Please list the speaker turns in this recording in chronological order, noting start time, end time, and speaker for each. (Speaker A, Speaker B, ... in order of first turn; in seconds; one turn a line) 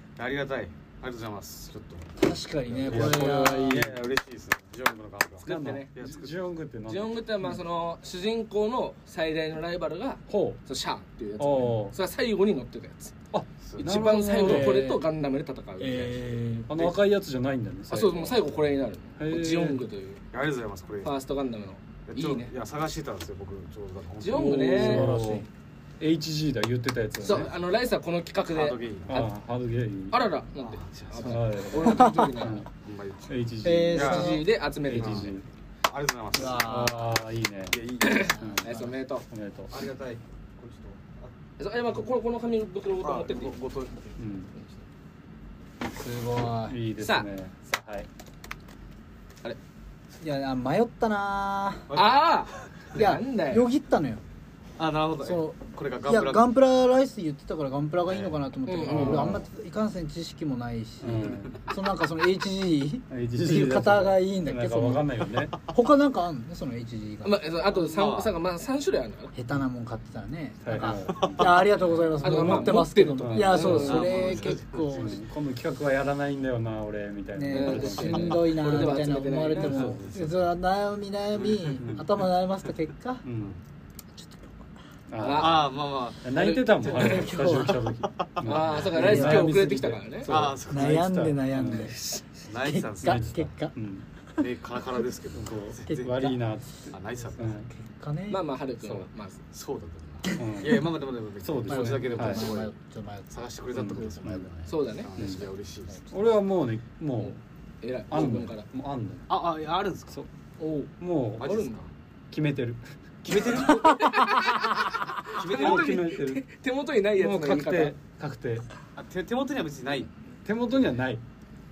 Speaker A: 0.2-6.3
Speaker B: 2.2-3.9
Speaker C: 2.9-4.0
Speaker D: 5.4-5.9
Speaker C: 5.4-7.5
Speaker D: 6.9-13.1
Speaker C: 10.3-10.6
Speaker C: 11.4-11.9
Speaker C: 13.3-14.8
Speaker A: 13.7-14.0
Speaker D: 13.8-16.3
Speaker B: 14.3-15.0
Speaker B: 15.8-16.7
Speaker C: 16.7-18.4
Speaker D: 17.9-20.2
Speaker C: 19.2-19.8
Speaker A: 20.3-21.2
Speaker D: 21.0-22.5
Speaker A: 22.1-24.7
Speaker D: 24.2-25.1
Speaker C: 24.3-25.4
Speaker B: 24.6-25.5
Speaker C: 26.0-27.5
Speaker D: 27.2-29.3
Speaker A: 27.2-27.6
Speaker A: 28.5-29.2
Speaker C: 29.1-30.3
Speaker D: 30.1-32.7
Speaker A: 30.6-31.4
Speaker C: 31.2-32.7
Speaker B: 32.0-32.2
Speaker A: 32.8-34.4
Speaker C: 33.3-34.3
Speaker B: 33.6-34.4
Speaker D: 33.9-35.3
Speaker C: 34.8-35.4
Speaker A: 34.9-35.3
Speaker A: 35.9-37.1
Speaker B: 36.3-37.2
Speaker C: 36.6-37.8
Speaker A: 37.7-38.9
Speaker D: 38.0-39.3
Speaker C: 38.3-38.7
Speaker C: 39.3-39.7
Speaker A: 39.7-41.3
Speaker D: 41.6-43.6
Speaker A: 43.0-44.2
Speaker C: 44.2-44.5
Speaker B: 45.9-46.8
Speaker C: 46.6-48.1
Speaker D: 47.0-47.3
Speaker B: 50.2-51.9
Speaker A: 51.9-52.2
Speaker D: 51.9-53.7
Speaker B: 52.9-54.2
Speaker A: 54.8-56.5
Speaker B: 55.2-67.5
Speaker A: 58.1-58.4
Speaker D: 58.6-59.3
Speaker C: 58.8-59.5
Speaker C: 61.0-61.6
Speaker A: 61.2-61.5
Speaker C: 63.1-65.6
Speaker D: 67.2-69.3
Speaker A: 67.8-68.4
Speaker B: 69.3-75.2
Speaker C: 70.6-74.2
Speaker A: 71.1-71.5
Speaker D: 72.2-74.5
Speaker A: 73.8-75.2
Speaker C: 74.8-80.2
Speaker B: 77.3-83.2
Speaker D: 77.5-79.9
Speaker A: 79.7-80.4
Speaker A: 81.3-81.8
Speaker C: 81.8-82.1
Speaker C: 83.2-83.5
Speaker B: 84.2-84.7
Speaker C: 85.1-91.9
Speaker D: 85.2-85.7
Speaker A: 85.2-87.9
Speaker D: 86.3-87.2
Speaker B: 86.8-87.9
Speaker D: 88.4-90.3
Speaker B: 88.9-89.5
Speaker A: 90.3-91.0
Speaker B: 90.7-93.7
Speaker A: 92.5-93.5
Speaker C: 93.0-94.0
Speaker A: 94.4-96.4
Speaker C: 95.3-97.7
Speaker B: 95.8-96.4
Speaker A: 96.9-97.6
Speaker B: 97.5-98.4
Speaker D: 98.3-99.4
Speaker A: 99.5-102.7
Speaker B: 100.2-100.8
Speaker C: 100.4-102.5
Speaker B: 101.7-104.7
Speaker A: 103.3-106.4
Speaker C: 103.7-104.5
Speaker D: 104.7-105.1
Speaker C: 105.1-105.5
Speaker C: 106.1-107.4
Speaker D: 107.2-108.7
Speaker C: 108.1-109.3
Speaker A: 109.3-110.2
Speaker D: 110.6-111.8
Speaker C: 111.0-111.6
Speaker A: 111.4-111.9
Speaker C: 112.3-113.6
Speaker A: 113.2-114.2
Speaker D: 113.5-117.9
Speaker B: 114.6-114.9
Speaker A: 115.3-116.0
Speaker C: 115.3-116.5
Speaker C: 117.2-118.7
Speaker A: 118.9-120.1
Speaker C: 120.4-121.2